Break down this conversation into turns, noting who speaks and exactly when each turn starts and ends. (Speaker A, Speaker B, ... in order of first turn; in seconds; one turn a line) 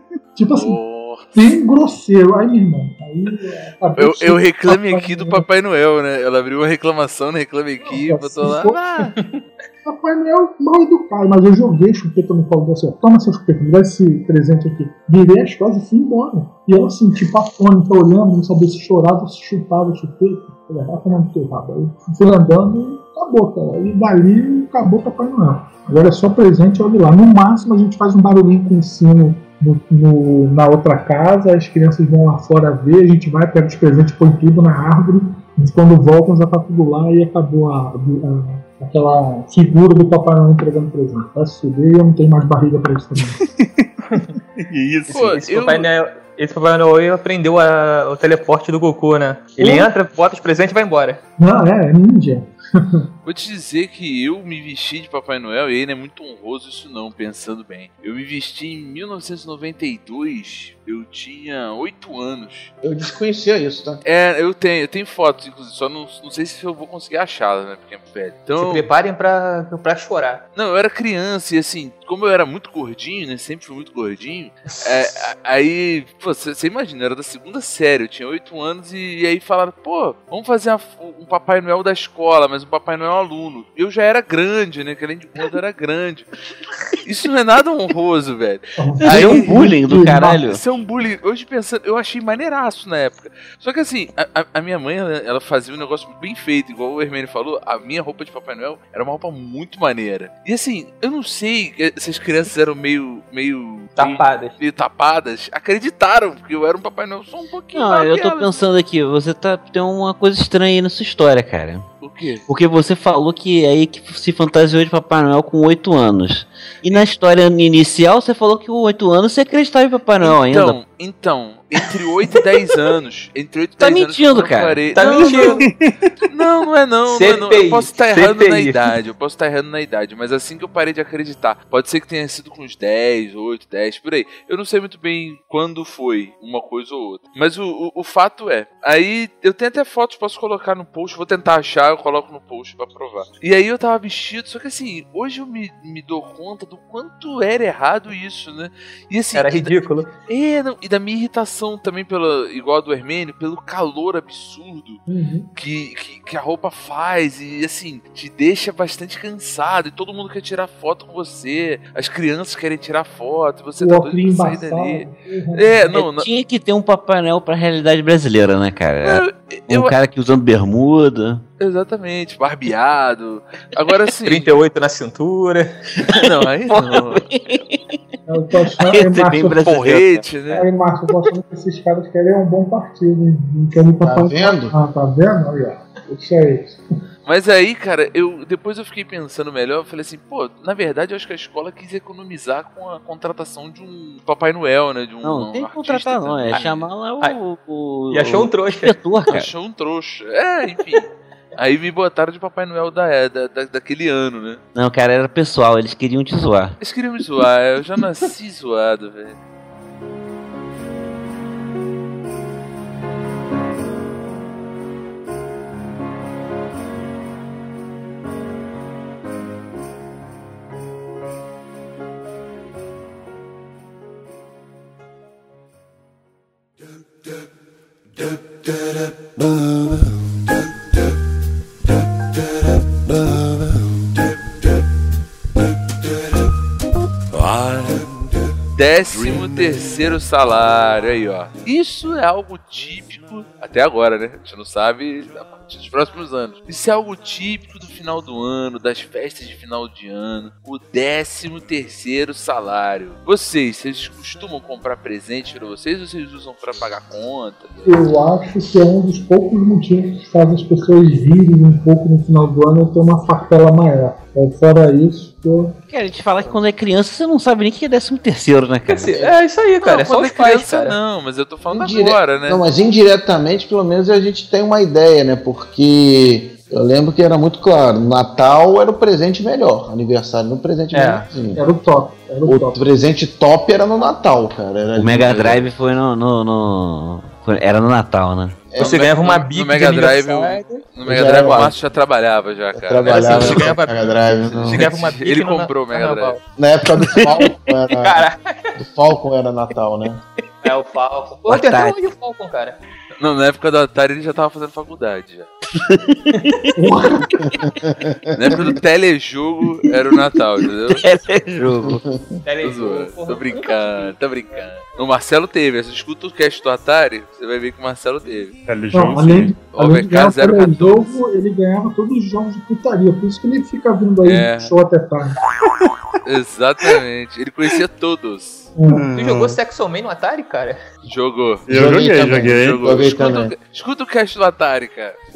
Speaker A: 0.4-0.8
Speaker B: 0.5-1.4
Speaker A: 1.4-5.5
Speaker B: 4.0-9.2
Speaker A: 7.8-9.1
Speaker A: 9.8-43.4
Speaker C: 43.4-43.9
Speaker C: 44.6-45.4
Speaker D: 45.1-51.2
Speaker B: 45.1-45.9
Speaker A: 49.6-49.9
Speaker A: 51.4-53.1
Speaker B: 53.2-62.7
Speaker E: 62.8-64.0
Speaker B: 64.0-68.9
Speaker D: 68.6-70.4
Speaker B: 70.5-86.3
Speaker B: 87.0-89.7
Speaker A: 88.8-90.4
Speaker F: 89.0-90.6
Speaker B: 90.5-108.5
Speaker D: 104.0-104.6
Speaker F: 107.8-111.8
Speaker B: 112.0-112.4
Speaker F: 112.5-120.8
Speaker B: 120.2-125.6
Speaker F: 123.8-124.8
Speaker D: 124.9-125.6
Speaker C: 125.6-126.1
Speaker B: 126.3-155.0
Speaker D: 127.1-128.9
Speaker D: 149.3-150.1
Speaker A: 155.1-155.5
Speaker B: 155.6-166.3
Speaker A: 163.8-166.0
Speaker F: 165.9-171.4
Speaker B: 169.0-170.0
Speaker B: 171.6-174.5
Speaker D: 174.2-175.7
Speaker F: 176.1-178.0
Speaker B: 176.1-177.2
Speaker A: 178.3-179.7
Speaker F: 178.8-180.3
Speaker B: 179.6-180.7
Speaker A: 180.5-186.8
Speaker E: 184.0-184.7
Speaker B: 187.3-196.9
Speaker F: 195.2-199.5
Speaker D: 196.5-197.4
Speaker D: 198.1-199.0
Speaker B: 199.3-204.6
Speaker F: 204.8-206.8
Speaker B: 206.8-209.4
Speaker B: 238.8-258.1
Speaker A: 257.9-265.8
Speaker F: 265.9-269.2
Speaker D: 268.9-271.0
Speaker B: 269.8-272.6
Speaker E: 271.7-281.6
Speaker D: 280.9-281.2
Speaker A: 281.6-282.9
Speaker E: 282.4-285.7
Speaker F: 285.0-288.6
Speaker E: 288.7-289.1
Speaker B: 288.8-293.8
Speaker D: 288.8-290.9
Speaker E: 291.1-291.8
Speaker E: 292.7-294.9
Speaker D: 293.1-294.0
Speaker D: 294.6-296.4
Speaker B: 294.6-296.4
Speaker E: 296.6-298.2
Speaker D: 298.0-298.7
Speaker E: 298.8-300.2
Speaker D: 300.6-302.8
Speaker F: 301.5-302.0
Speaker B: 303.2-305.5
Speaker F: 305.8-306.7
Speaker D: 306.3-306.6
Speaker A: 306.8-307.4
Speaker E: 307.4-308.8
Speaker B: 308.4-311.1
Speaker F: 310.9-312.0
Speaker E: 311.7-312.4
Speaker D: 312.5-314.2
Speaker B: 312.6-318.6
Speaker C: 318.7-319.6
Speaker A: 318.9-325.4
Speaker B: 319.7-321.2
Speaker B: 324.2-324.7
Speaker B: 326.2-328.7
Speaker A: 328.8-329.0
Speaker C: 328.9-329.6
Speaker D: 329.2-330.8
Speaker B: 331.0-331.7
Speaker C: 331.7-332.9
Speaker E: 331.7-333.5
Speaker B: 332.3-335.2